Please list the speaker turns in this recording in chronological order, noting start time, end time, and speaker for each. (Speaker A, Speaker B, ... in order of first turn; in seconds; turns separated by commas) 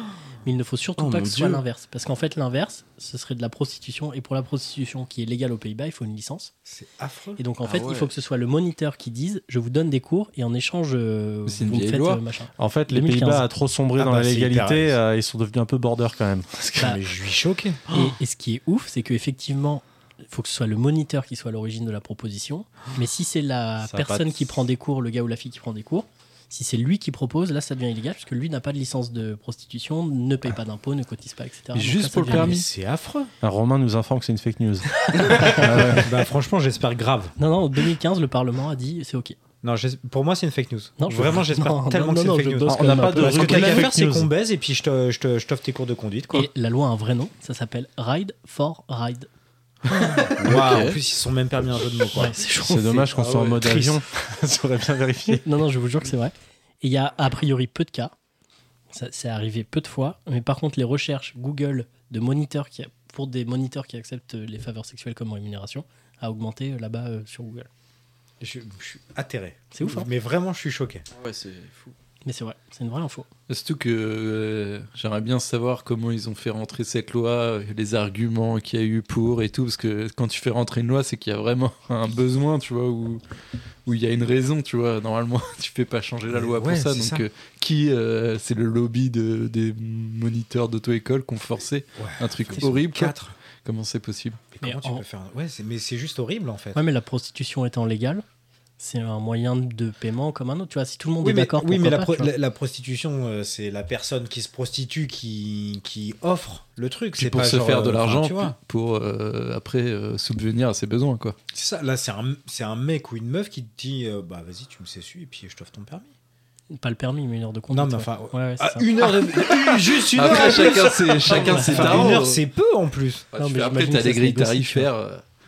Speaker A: 0.4-6.5, Speaker B: 1.0-1.6, Speaker C: 6.7-7.4, Speaker A: 7.4-13.5, Speaker B: 7.6-8.1, Speaker D: 11.4-12.2, Speaker E: 12.6-17.0, Speaker C: 13.9-15.0, Speaker C: 16.8-17.8, Speaker A: 17.9-32.6, Speaker E: 23.8-24.5, Speaker D: 31.7-32.7, Speaker C: 32.3-33.3, Speaker E: 33.4-36.1, Speaker A: 35.0-36.0, Speaker C: 35.6-37.3, Speaker A: 37.4-39.4, Speaker C: 39.6-46.5, Speaker A: 41.0-43.9, Speaker E: 42.7-44.3, Speaker A: 46.3-49.3, Speaker C: 49.9-52.4, Speaker B: 50.4-51.0, Speaker A: 52.1-53.1, Speaker E: 52.6-55.4, Speaker C: 53.1-54.0, Speaker A: 55.3-58.1, Speaker A: 58.9-67.7, Speaker C: 68.4-71.0, Speaker A: 69.7-70.1, Speaker B: 71.1-71.9, Speaker A: 72.2-73.3, Speaker D: 73.5-83.2, Speaker D: 83.8-94.4, Speaker C: 86.3-87.2, Speaker C: 92.0-93.3, Speaker C: 94.5-96.8, Speaker A: 94.6-95.0, Speaker A: 96.7-98.2, Speaker A: 98.8-102.3, Speaker C: 101.2-108.5, Speaker D: 107.2-111.3, Speaker C: 111.5-116.1, Speaker A: 116.7-119.9, Speaker C: 117.7-123.3, Speaker D: 120.0-122.4, Speaker A: 121.4-122.1, Speaker D: 123.3-125.2, Speaker A: 123.4-124.9